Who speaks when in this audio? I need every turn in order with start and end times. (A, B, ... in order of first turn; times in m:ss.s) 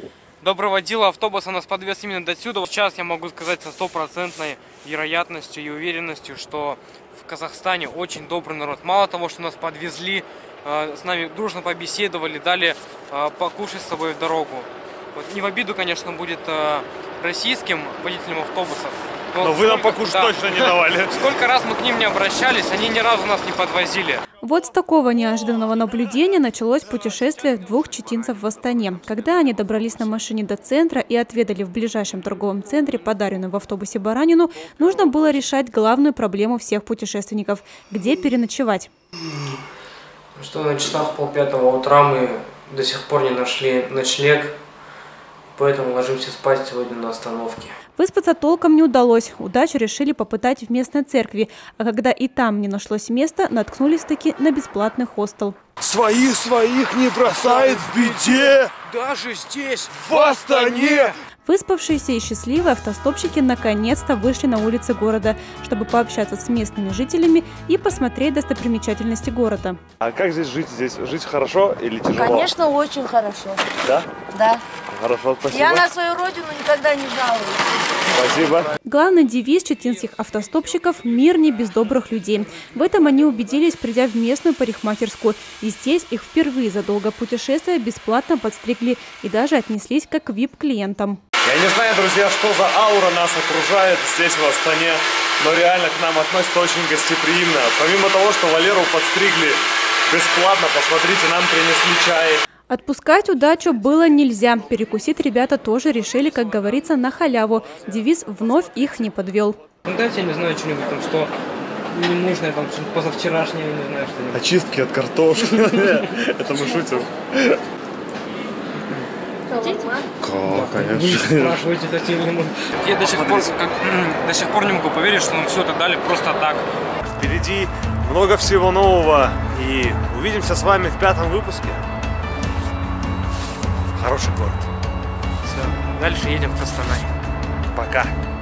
0:00.4-0:24.2 A
0:19.4-0:21.3 B
0:24.4-0:38.9 C
0:40.4-0:44.6 A
0:45.5-0:47.8 A
0:48.0-0:55.6 C
0:55.8-0:58.7 B
0:57.3-1:01.2 A
1:00.1-1:01.1 B
1:01.4-1:09.8 C
1:10.0-1:12.5 B
1:12.1-1:13.6 D
1:13.8-1:14.1 B
1:14.3-1:14.6 D
1:14.9-1:15.9 B
1:15.5-1:17.6 D
1:18.1-1:18.7 B
1:18.9-1:31.2 C
1:31.4-1:42.4 B
1:42.7-1:49.6 C
1:49.8-1:54.4 A
1:54.3-1:57.6 B
1:55.5-1:56.1 A
1:59.5-2:00.1 D
2:00.2-2:01.6 B
2:00.5-2:06.7 A
2:03.0-2:03.5 B
2:07.2-2:11.8 B
2:14.0-2:14.7 B
2:15.4-2:17.1 A
2:17.7-2:18.1 B